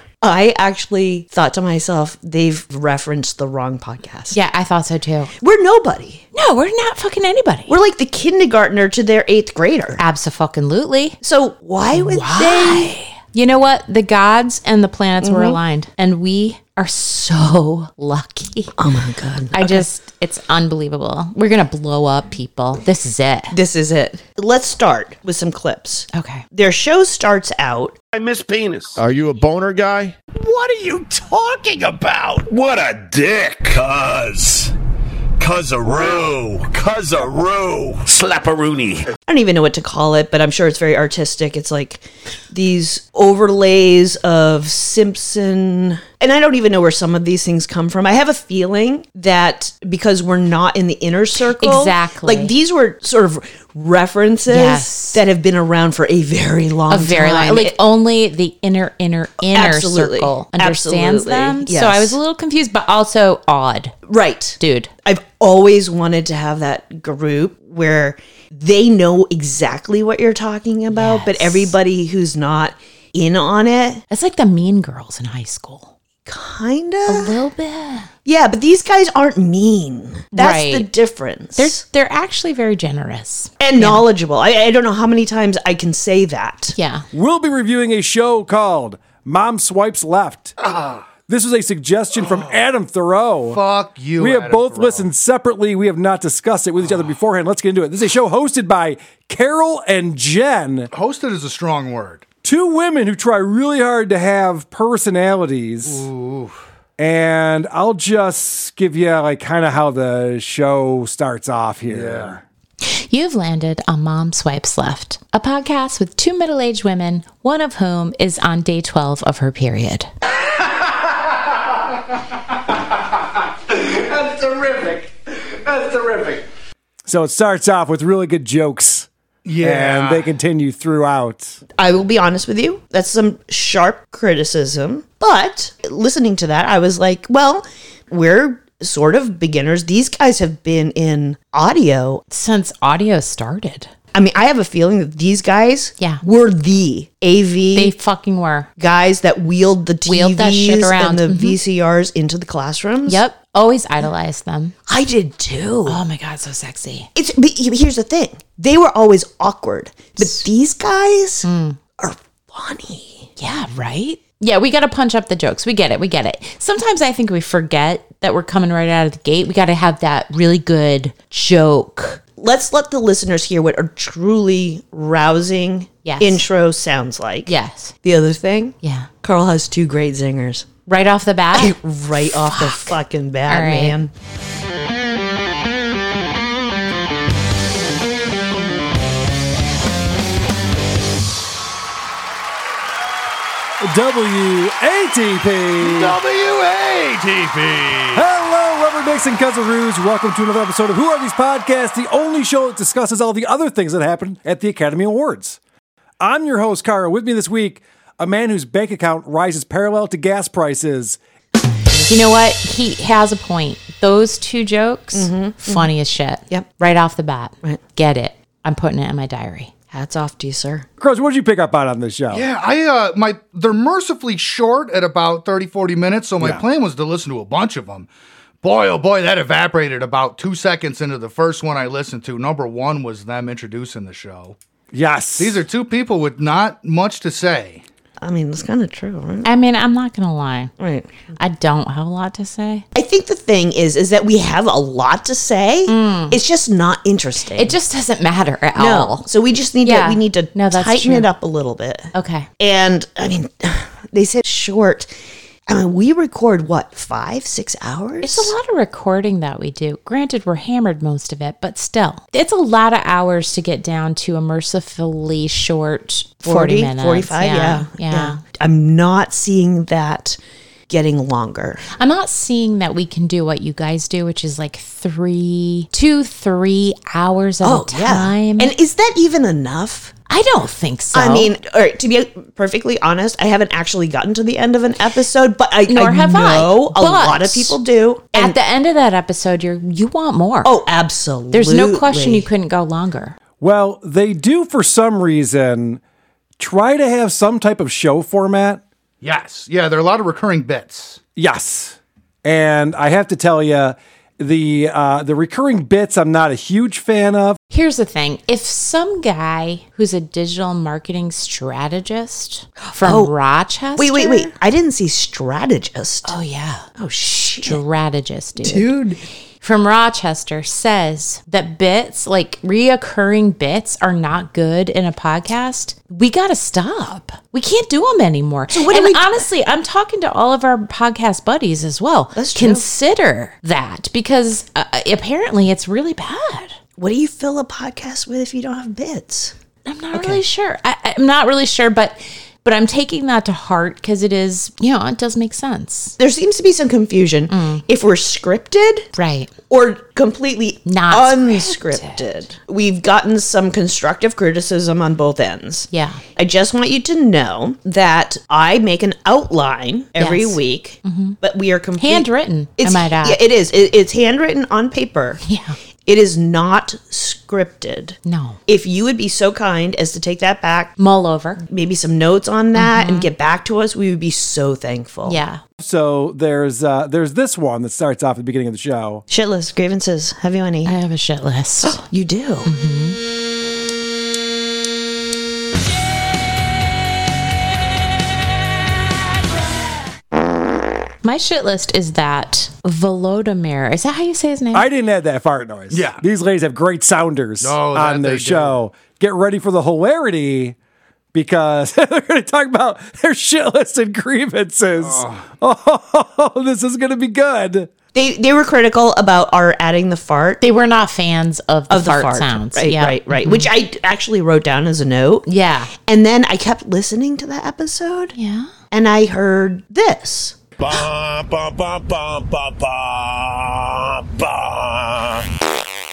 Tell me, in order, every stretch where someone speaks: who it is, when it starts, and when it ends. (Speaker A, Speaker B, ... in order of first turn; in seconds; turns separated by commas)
Speaker A: 0.2-4.4, Speaker B: 4.3-5.3, Speaker A: 5.4-6.2, Speaker B: 6.3-7.7, Speaker A: 7.7-10.0, Speaker B: 10.0-11.2, Speaker A: 11.2-12.9, Speaker B: 11.9-18.8, Speaker A: 15.2-15.6, Speaker A: 18.8-19.9, Speaker B: 19.5-23.5, Speaker A: 23.5-27.9, Speaker B: 26.1-26.4, Speaker C: 28.1-30.1, Speaker D: 28.1-34.7, Speaker C: 30.7-34.6, Speaker C: 35.4-39.0, Speaker D: 35.4-39.0, Speaker A: 39.3-57.8, Speaker B: 51.6-52.5, Speaker B: 54.5-55.2, Speaker B: 56.9-64.0, Speaker A: 59.5-62.2, Speaker A: 64.1-74.0, Speaker B: 64.6-64.9, Speaker B: 70.9-71.7, Speaker B: 74.1-75.9, Speaker A: 76.2-77.3, Speaker B: 77.0-78.1, Speaker A: 78.2-81.8, Speaker B: 80.3-80.9, Speaker B: 81.6-84.0, Speaker A: 83.6-86.7, Speaker B: 86.7-87.0, Speaker E: 87.1-90.5, Speaker F: 90.6-91.0, Speaker E: 91.3-93.6, Speaker F: 92.2-92.6, Speaker F: 93.5-95.1, Speaker E: 94.2-100.9, Speaker F: 100.9-102.2, Speaker E: 102.4-106.1, Speaker F: 105.8-106.6, Speaker E: 107.0-112.4, Speaker F: 111.8-112.3, Speaker B: 112.8-120.1, Speaker C: 124.1-125.0, Speaker D: 124.3-125.0, Speaker C: 125.8-126.4, Speaker D: 125.9-126.3, Speaker E: 127.0-129.1, Speaker F: 129.4-130.3, Speaker E: 129.6-131.6, Speaker A: 131.8-142.2, Speaker B: 142.3-143.9, Speaker A: 144.1-147.9, Speaker B: 147.7-148.7, Speaker A: 148.8-153.2, Speaker B: 150.0-151.6, Speaker B: 153.1-154.7, Speaker A: 154.9-156.0, Speaker B: 155.8-157.1, Speaker A: 157.1-161.5, Speaker B: 161.4-161.8, Speaker A: 162.0-163.3, Speaker B: 163.4-172.2, Speaker A: 172.4-180.7, Speaker B: 176.0-176.4, Speaker B: 177.4-177.9, Speaker B: 178.8-179.1, Speaker B: 180.8-181.7, Speaker A: 181.5-184.1, Speaker B: 182.5-182.9, Speaker B: 183.5-184.0, Speaker E: 193.8-196.2, Speaker F: 195.8-198.2, Speaker E: 198.1-205.6, Speaker E: 206.2-211.2, Speaker B: 212.1-219.7, Speaker A: 215.1-215.9, Speaker A: 219.9-220.8, Speaker E: 221.0-222.5, Speaker F: 222.3-228.1, Speaker F: 228.6-234.6, Speaker E: 234.9-235.6, Speaker F: 235.4-237.8, Speaker A: 238.2-239.5, Speaker B: 239.4-240.7, Speaker A: 240.8-241.1, Speaker B: 241.4-242.8, Speaker A: 242.9-247.8, Speaker B: 245.9-246.4, Speaker B: 247.5-249.3, Speaker A: 248.7-255.1, Speaker B: 249.8-251.3, Speaker B: 252.1-252.5, Speaker A: 255.7-258.5, Speaker B: 258.2-268.4, Speaker A: 266.4-271.8, Speaker B: 271.9-278.7, Speaker A: 277.6-280.1, Speaker B: 280.3-281.5, Speaker A: 281.1-288.6, Speaker B: 285.9-287.8, Speaker B: 288.3-290.7, Speaker A: 290.6-292.5, Speaker B: 291.5-293.4, Speaker E: 293.6-296.0, Speaker E: 296.6-298.8, Speaker F: 299.2-301.2, Speaker E: 301.4-307.6, Speaker B: 307.7-314.5, Speaker A: 312.8-313.3, Speaker A: 313.9-316.3, Speaker B: 316.2-316.9, Speaker A: 317.0-317.8, Speaker B: 317.6-318.9, Speaker A: 318.6-319.2, Speaker B: 319.6-336.8, Speaker A: 328.7-329.4, Speaker A: 332.4-332.8, Speaker A: 337.0-339.5, Speaker B: 339.9-346.1, Speaker A: 340.1-340.4, Speaker A: 346.2-349.1, Speaker B: 347.5-347.8, Speaker B: 349.1-349.5, Speaker A: 349.7-365.4, Speaker B: 350.9-352.2, Speaker B: 355.9-356.2, Speaker B: 360.2-361.4, Speaker B: 362.0-363.4, Speaker B: 365.4-365.8, Speaker A: 366.1-370.9, Speaker B: 368.2-368.6, Speaker B: 371.0-371.6, Speaker A: 371.6-375.4, Speaker B: 372.7-373.3, Speaker B: 375.2-375.6, Speaker E: 375.8-379.2, Speaker A: 379.3-380.9, Speaker B: 380.8-382.0, Speaker A: 381.9-382.7, Speaker B: 382.6-383.2, Speaker B: 391.2-394.9, Speaker E: 394.7-400.8, Speaker F: 395.9-396.2, Speaker F: 397.6-398.8, Speaker E: 401.3-407.9, Speaker F: 405.0-405.4, Speaker A: 408.1-410.6, Speaker B: 410.6-413.7, Speaker A: 411.9-418.3, Speaker B: 415.4-415.9, Speaker B: 418.3-418.7, Speaker A: 418.9-420.6, Speaker C: 420.8-425.4